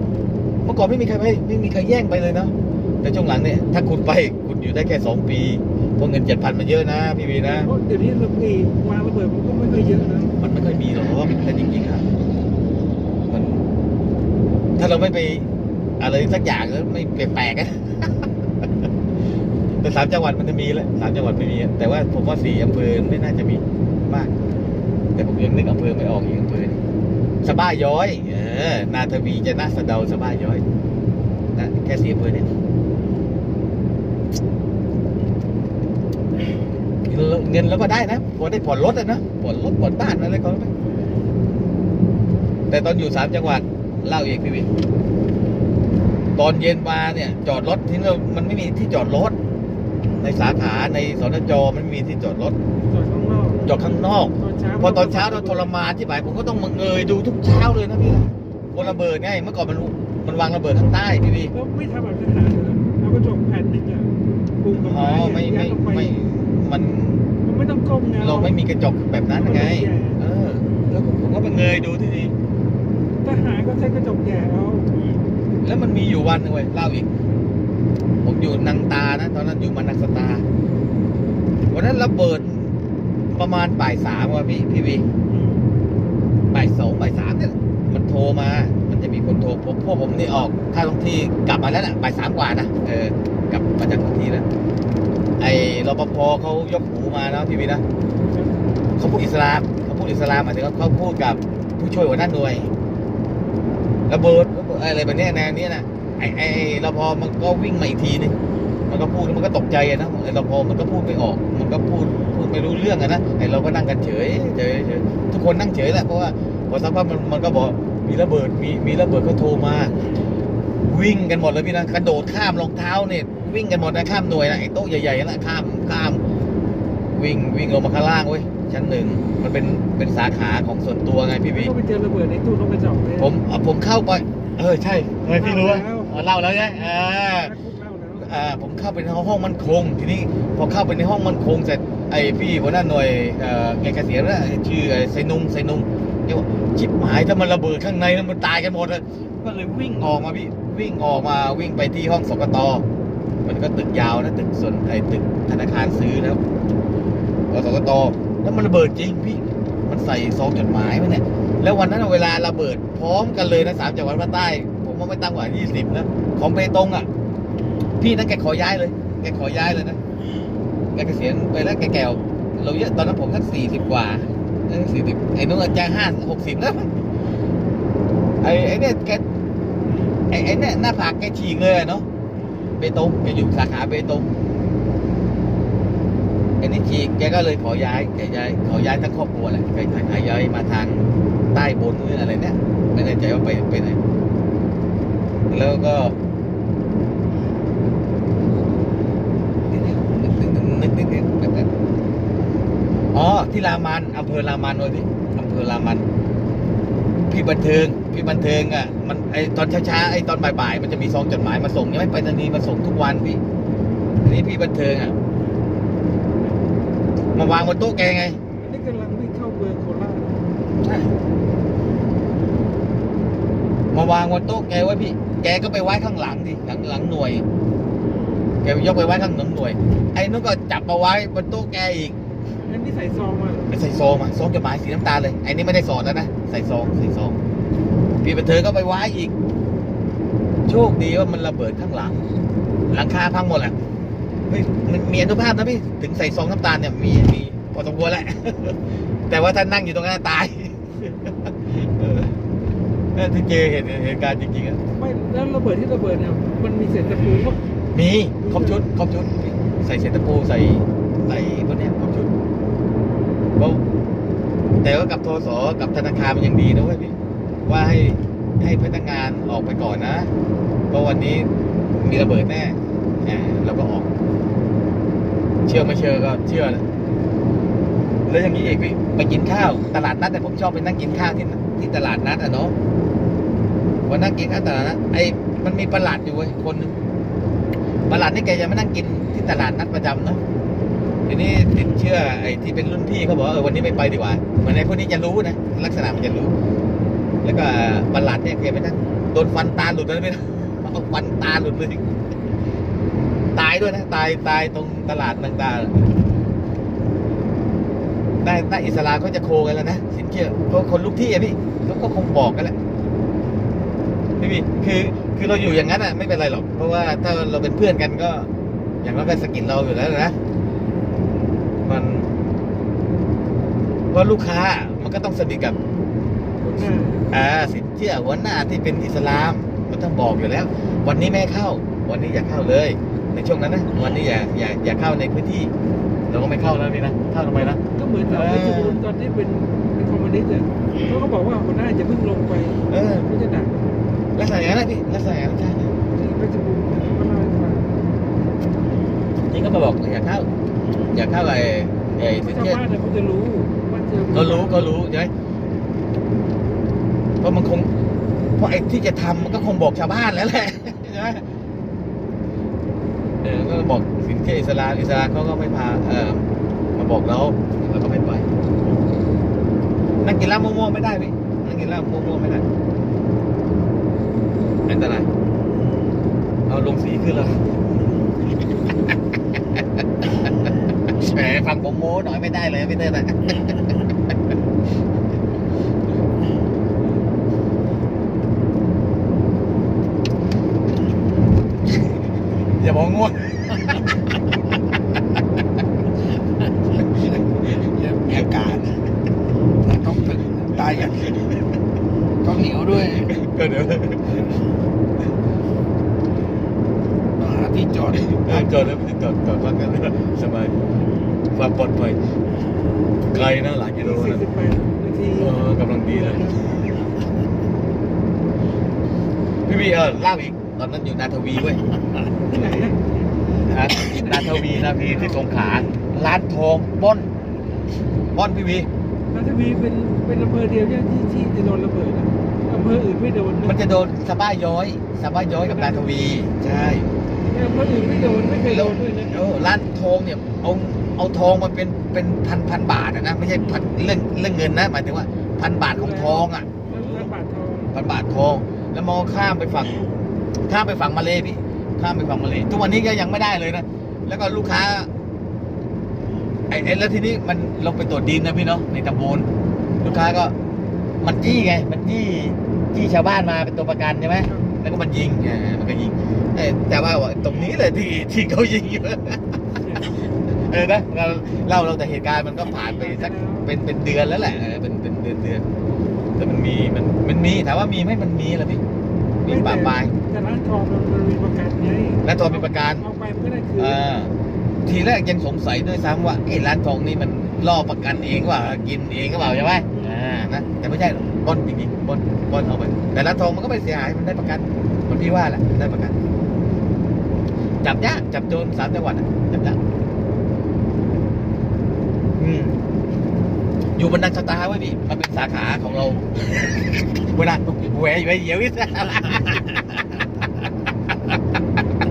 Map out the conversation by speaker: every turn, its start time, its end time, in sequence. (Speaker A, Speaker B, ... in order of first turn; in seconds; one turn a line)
Speaker A: 0.6-7.7
Speaker B: 7.4-10.3
Speaker A: 10.4-12.1
Speaker A: 13.3-13.6
Speaker A: 14.8-15.5
Speaker A: 16.0-18.3
Speaker A: 19.7-24.3
Speaker A: 25.1-26.8
Speaker A: 27.4-30.6
Speaker A: 31.5-32.5
Speaker A: 37.1-40.7
Speaker A: 42.7-44.7
Speaker A: 46.4-49.4
Speaker A: 50.2-52.6
Speaker B: 52.9-55.7
Speaker A: 53.6-61.5
Speaker B: 58.8-59.0
Speaker B: 61.5-66.2
Speaker A: 64.7-67.3
Speaker B: 67.4-68.6
Speaker A: 68.2-72.3
Speaker B: 69.3-70.2
Speaker B: 73.2-75.0
Speaker A: 75.6-77.1
Speaker A: 78.2-80.5
Speaker A: 81.7-82.7
Speaker A: 83.3-85.1
Speaker B: 85.3-85.6
Speaker A: 86.5-94.5
Speaker A: 95.4-97.8
Speaker B: 98.3-98.5
Speaker A: 99.0-102.7
Speaker A: 104.1-108.3
Speaker A: 108.9-120.0
Speaker A: 120.8-126.2
Speaker A: 127.1-131.7
Speaker B: 131.5-133.3
Speaker A: 133.2-137.5
Speaker B: 135.4-138.3
Speaker A: 138.2-152.8
Speaker A: 153.4-156.4
Speaker A: 157.5-167.1
Speaker A: 168.0-170.0
Speaker A: 170.9-176.9
Speaker A: 178.4-179.2
Speaker A: 180.3-182.1
Speaker A: 182.8-184.3
Speaker A: 186.6-194.0
Speaker A: 195.5-196.1
Speaker A: 199.7-201.7
Speaker A: 203.1-206.1
Speaker A: 207.3-213.4
Speaker A: 214.2-215.1
Speaker A: 217.3-218.4
Speaker B: 218.6-220.4
Speaker A: 220.8-221.1
Speaker A: 223.9-227.4
Speaker A: 228.6-232.2
Speaker B: 232.6-233.8
Speaker A: 233.7-237.4
Speaker A: 238.2-239.3
Speaker A: 240.7-242.2
Speaker A: 242.9-243.8
Speaker A: 244.5-252.4
Speaker A: 253.1-254.8
Speaker B: 255.0-257.6
Speaker A: 257.9-262.3
Speaker B: 258.4-258.8
Speaker A: 263.6-263.8
Speaker A: 264.8-267.1
Speaker A: 267.6-270.3
Speaker A: 270.9-274.1
Speaker A: 275.6-276.8
Speaker B: 278.2-278.8
Speaker A: 278.3-282.8
Speaker A: 284.1-287.0
Speaker A: 288.1-290.4
Speaker A: 291.2-296.6
Speaker A: 297.4-302.0
Speaker A: 303.6-306.1
Speaker A: 308.4-312.8
Speaker A: 314.4-318.5
Speaker A: 319.0-320.4
Speaker A: 321.8-322.3
Speaker A: 324.1-325.8
Speaker B: 326.6-327.3
Speaker A: 327.3-335.7
Speaker A: 336.3-339.0
Speaker B: 337.6-343.8
Speaker A: 342.9-343.3
Speaker A: 344.4-345.9
Speaker B: 346.1-348.0
Speaker A: 349.5-350.5
Speaker A: 351.1-352.8
Speaker B: 352.4-355.0
Speaker A: 354.3-355.3
Speaker A: 357.4-357.9
Speaker A: 358.6-361.4
Speaker A: 363.4-368.5
Speaker A: 370.2-372.6
Speaker A: 374.9-375.3
Speaker A: 376.7-377.6
Speaker A: 380.2-383.9
Speaker A: 392.8-394.1
Speaker C: 397.3-399.0
Speaker C: 399.8-401.3
Speaker A: 401.1-401.5
Speaker C: 402.4-403.3
Speaker A: 403.0-404.6
Speaker C: 407.4-408.9
Speaker A: 408.1-410.8
Speaker A: 411.5-412.2
Speaker A: 413.3-414.4
Speaker B: 414.0-416.7
Speaker A: 415.4-416.9
Speaker A: 419.6-421.9
Speaker B: 422.4-423.0
Speaker A: 423.6-427.3
Speaker B: 423.9-426.0
Speaker A: 428.3-428.9
Speaker B: 429.3-433.8
Speaker A: 433.6-437.1
Speaker B: 435.5-436.4
Speaker B: 437.5-439.3
Speaker A: 438.6-447.3
Speaker B: 443.6-443.9
Speaker B: 445.9-447.9
Speaker A: 447.9-450.1
Speaker A: 450.6-455.1
Speaker A: 456.7-459.5
Speaker A: 460.0-460.6
Speaker A: 461.2-469.4
Speaker B: 469.8-470.1
Speaker A: 470.5-475.7
Speaker B: 472.9-473.7
Speaker A: 476.4-478.8
Speaker A: 479.4-480.1
Speaker B: 479.5-484.0
Speaker A: 482.2-483.1
Speaker A: 483.8-484.3
Speaker A: 484.9-496.2
Speaker B: 489.9-490.4
Speaker A: 497.8-499.8
Speaker A: 502.4-502.8
Speaker A: 504.0-506.4
Speaker A: 507.2-510.0